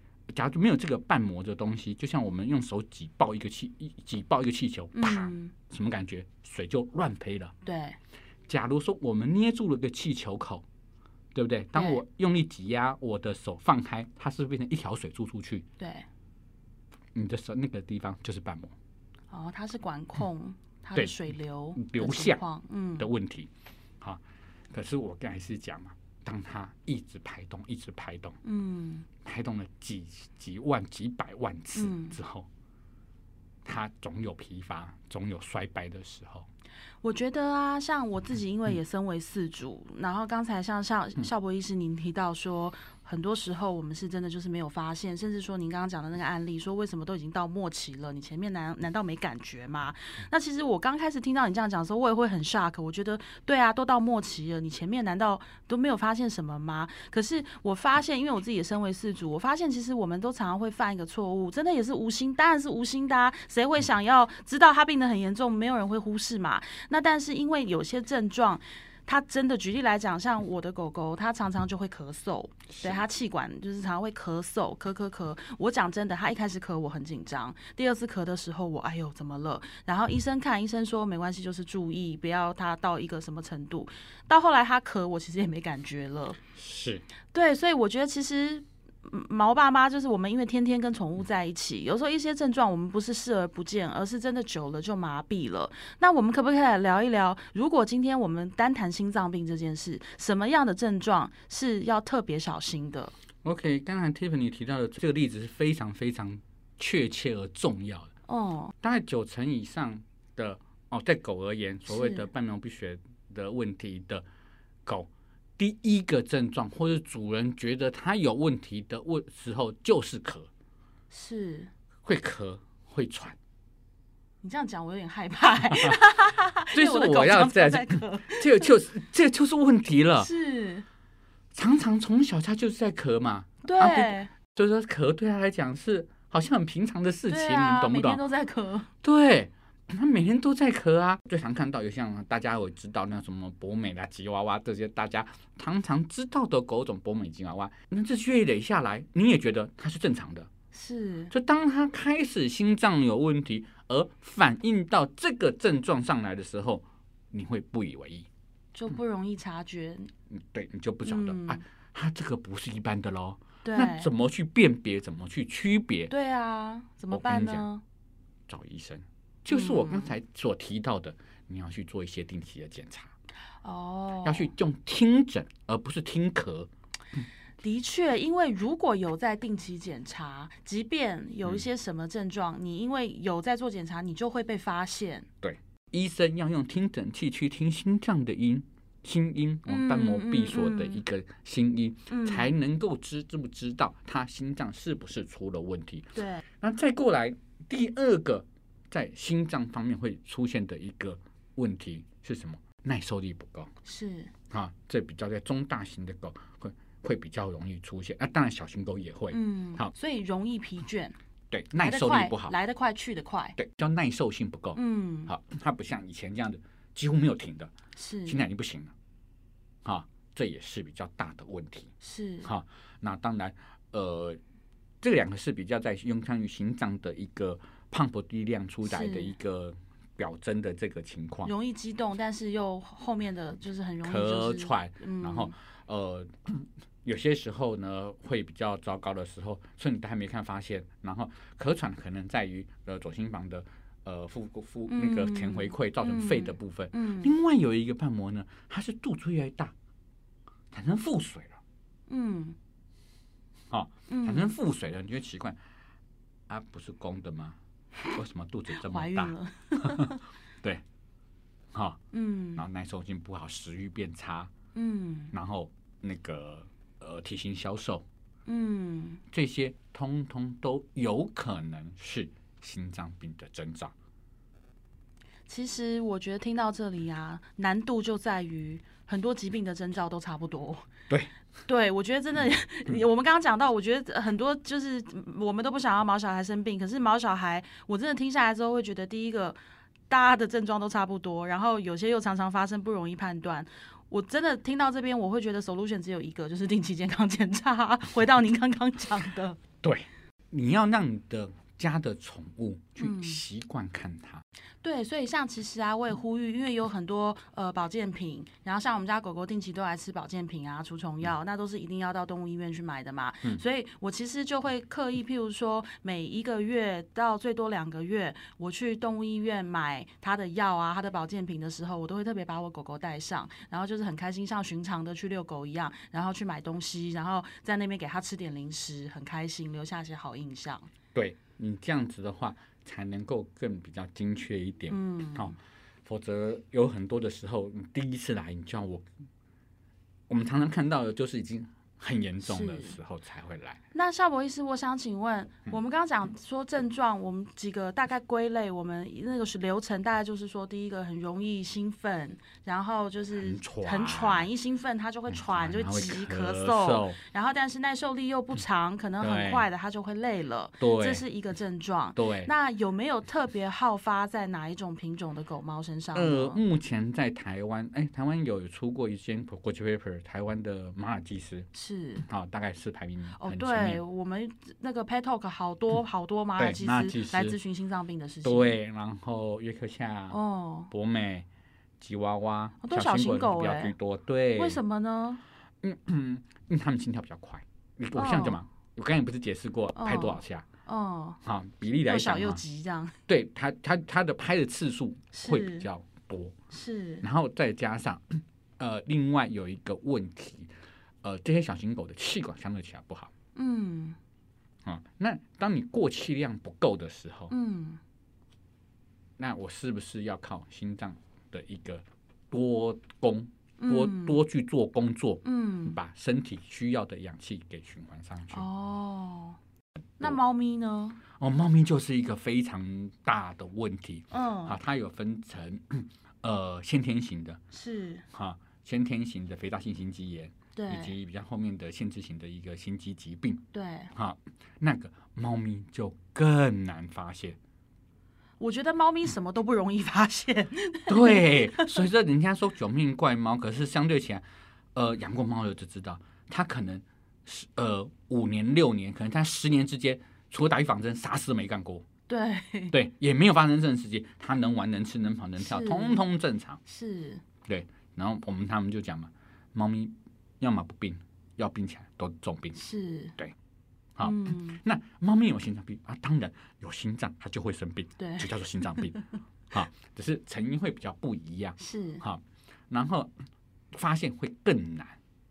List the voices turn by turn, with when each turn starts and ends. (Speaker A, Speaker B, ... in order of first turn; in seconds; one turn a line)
Speaker A: 0.3-7.5
Speaker B: 4.9-5.5
Speaker B: 7.6-8.0
Speaker A: 8.5-10.7
Speaker A: 11.3-15.7
Speaker B: 11.7-12.0
Speaker B: 15.8-16.1
Speaker A: 17.1-18.7
Speaker B: 19.3-23.1
Speaker A: 21.8-22.4
Speaker A: 23.0-24.2
Speaker A: 24.7-28.4
Speaker B: 28.4-29.1
Speaker A: 29.2-32.5
Speaker B: 31.8-32.2
Speaker A: 33.6-36.5
Speaker B: 37.0-86.4
Speaker A: 72.7-73.0
Speaker A: 86.6-87.0
Speaker B: 87.3-103.1
Speaker A: 103.4-108.1
Speaker B: 108.3-108.7
Speaker A: 108.8-114.2
Speaker B: 111.9-112.3
Speaker A: 114.9-120.5
Speaker B: 121.1-121.7
Speaker A: 122.0-123.4
Speaker B: 124.4-128.7
Speaker A: 125.7-126.0
Speaker A: 126.7-130.3
Speaker B: 130.2-130.9
Speaker A: 131.5-138.2
Speaker B: 133.6-134.3
Speaker B: 137.3-138.9
Speaker A: 139.0-150.5
Speaker B: 150.7-151.3
Speaker A: 151.3-158.3
Speaker B: 158.7-160.1
Speaker A: 160.3-166.1
Speaker B: 161.1-161.6
Speaker B: 163.7-164.1
Speaker B: 166.1-167.8
Speaker A: 167.1-167.7
Speaker A: 168.5-173.1
Speaker B: 169.5-170.1
Speaker B: 173.6-174.5
Speaker A: 174.2-176.7
Speaker B: 177.6-185.3
Speaker A: 185.4-203.7
Speaker B: 189.7-191.0
Speaker B: 192.1-192.5
Speaker B: 196.2-196.4
Speaker B: 203.8-204.3
Speaker A: 204.5-209.9
Speaker B: 209.3-211.2
Speaker A: 211.5-212.6
Speaker B: 211.8-213.6
Speaker A: 213.6-217.7
Speaker B: 214.8-215.3
Speaker B: 218.0-218.4
Speaker A: 218.3-218.9
Speaker A: 219.8-221.9
Speaker B: 222.0-222.5
Speaker A: 222.4-224.4
Speaker A: 225.0-231.5
Speaker B: 228.8-229.3
Speaker B: 231.4-235.5
Speaker A: 234.0-249.7
Speaker B: 244.9-247.3
Speaker A: 250.7-251.6
Speaker B: 252.1-252.6
Speaker A: 253.7-255.6
Speaker B: 254.1-254.6
Speaker A: 256.5-257.6
Speaker A: 258.1-260.8
Speaker B: 258.7-260.2
Speaker A: 261.7-262.0
Speaker B: 262.1-262.6
Speaker A: 262.6-264.5
Speaker B: 264.8-265.3
Speaker A: 265.3-268.0
Speaker B: 268.5-269.2
Speaker A: 269.3-273.9
Speaker B: 275.5-280.9
Speaker B: 281.7-289.6
Speaker B: 290.1-299.6
Speaker A: 299.8-304.4
Speaker B: 303.0-303.4
Speaker B: 304.8-330.9
Speaker A: 331.1-339.1
Speaker B: 334.9-335.6
Speaker A: 340.3-343.8
Speaker B: 342.4-343.0
Speaker B: 343.9-366.6
Speaker A: 353.4-354.5
Speaker A: 355.3-357.2
Speaker A: 359.2-359.7
Speaker A: 360.8-361.2
Speaker A: 362.2-362.5
Speaker A: 366.1-371.7
Speaker B: 371.7-372.2
Speaker A: 372.2-374.0
Speaker B: 373.4-378.8
Speaker A: 376.6-377.6
Speaker A: 378.4-380.4
Speaker B: 380.3-380.9
Speaker A: 380.9-381.5
Speaker A: 382.0-384.8
Speaker B: 382.8-383.9
Speaker B: 384.6-385.4
Speaker A: 385.8-390.7
Speaker B: 388.1-388.6
Speaker B: 390.0-391.4
Speaker A: 391.4-392.6
Speaker B: 392.0-393.2
Speaker A: 393.3-396.6
Speaker B: 395.3-395.9
Speaker B: 396.7-397.2
Speaker A: 397.2-400.7
Speaker A: 401.2-403.3
Speaker B: 403.6-404.2
Speaker A: 404.9-407.5
Speaker B: 407.5-408.0
Speaker A: 409.4-418.6
Speaker B: 413.8-414.4
Speaker B: 415.4-416.0
Speaker B: 418.5-419.6
Speaker B: 420.2-421.2
Speaker A: 421.4-427.6
Speaker B: 424.3-424.8
Speaker B: 427.7-428.2
Speaker A: 428.3-437.6
Speaker B: 430.8-431.1
Speaker B: 433.7-434.1
Speaker B: 438.6-442.0
Speaker A: 441.1-444.4
Speaker A: 444.9-452.1
Speaker B: 452.3-453.0
Speaker A: 452.9-456.8
Speaker B: 455.6-456.2
Speaker B: 456.9-457.4
Speaker A: 457.6-462.8
Speaker B: 462.8-463.4
Speaker A: 464.2-469.2
Speaker B: 464.2-464.8
Speaker B: 468.2-469.2
Speaker A: 469.7-473.4
Speaker B: 471.8-472.2
Speaker A: 473.9-475.2